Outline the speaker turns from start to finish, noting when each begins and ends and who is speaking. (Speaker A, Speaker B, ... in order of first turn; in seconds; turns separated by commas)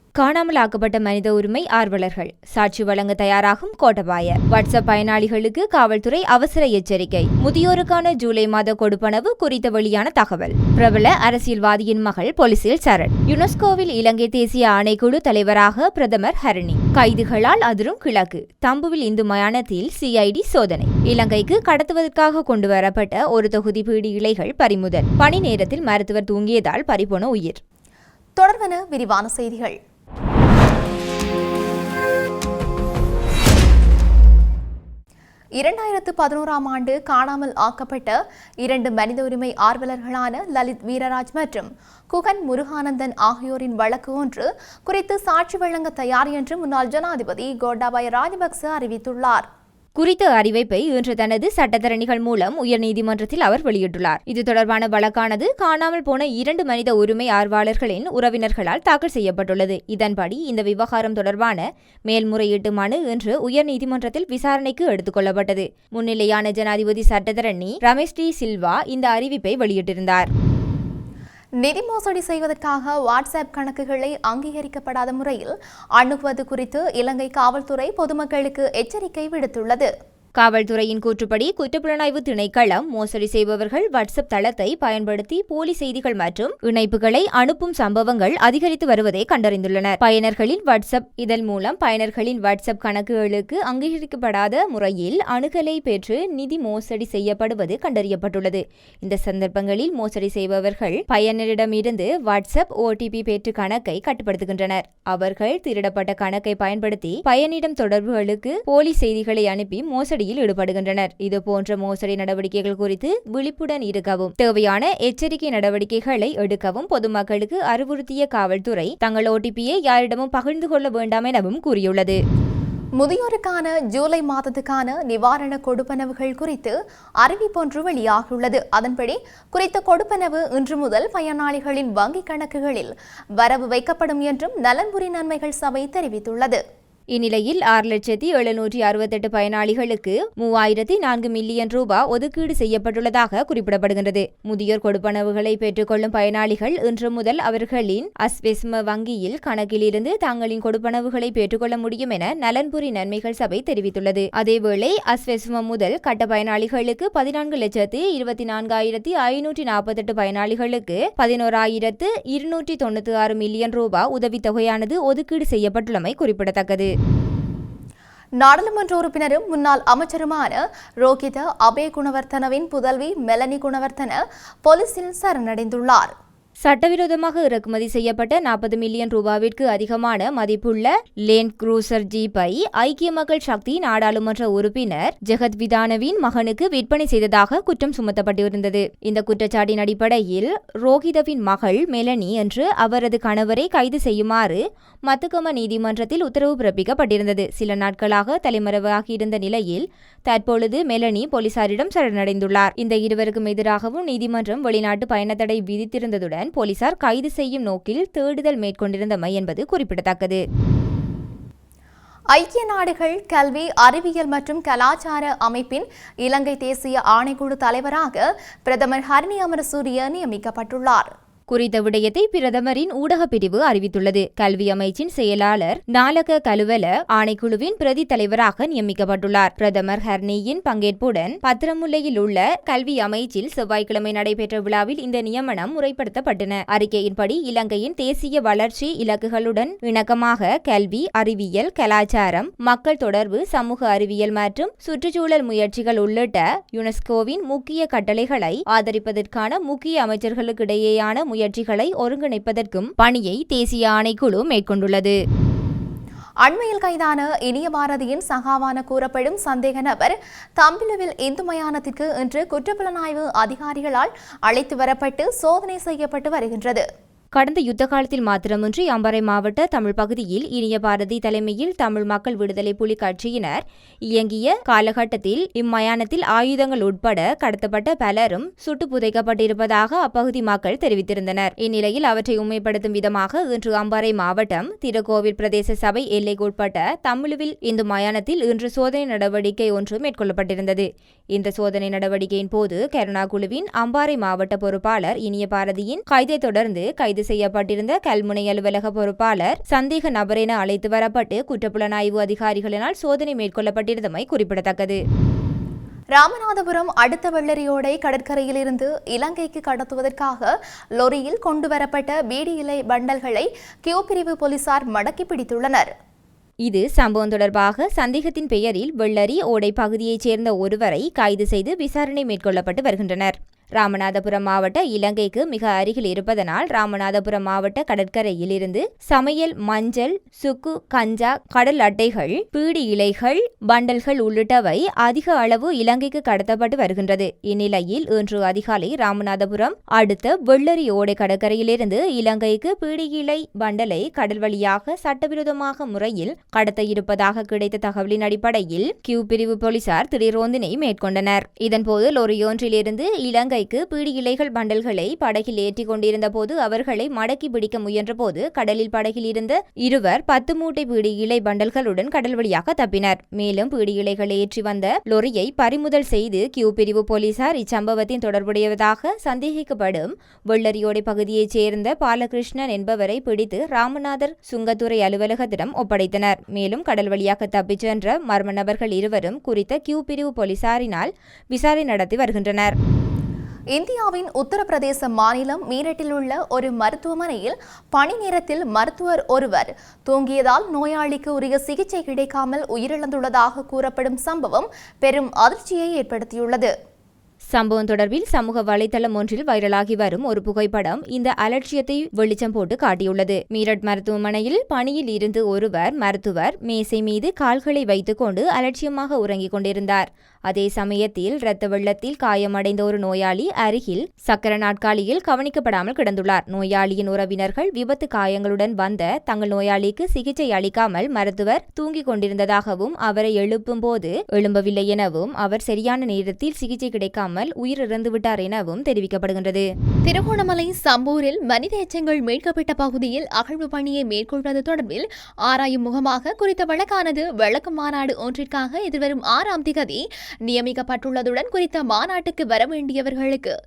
Speaker A: 0.2-27.6, Speaker B: 28.4-29.8, Speaker B: 35.6-49.5, Speaker A: 50.0-70.3, Speaker B: 71.6-79.9, Speaker A: 80.4-122.2, Speaker B: 123.0-136.6, Speaker A: 137.1-166.9, Speaker B: 168.4-176.1, Speaker A: 176.7-210.4, Speaker B: 212.3-221.1, Speaker A: 221.5-255.1, Speaker B: 256.4-266.8, Speaker A: 267.4-273.6, Speaker A: 274.1-305.0, Speaker B: 306.1-315.9, Speaker A: 316.7-382.8, Speaker B: 383.7-396.7, Speaker A: 397.5-429.6, Speaker B: 430.1-443.5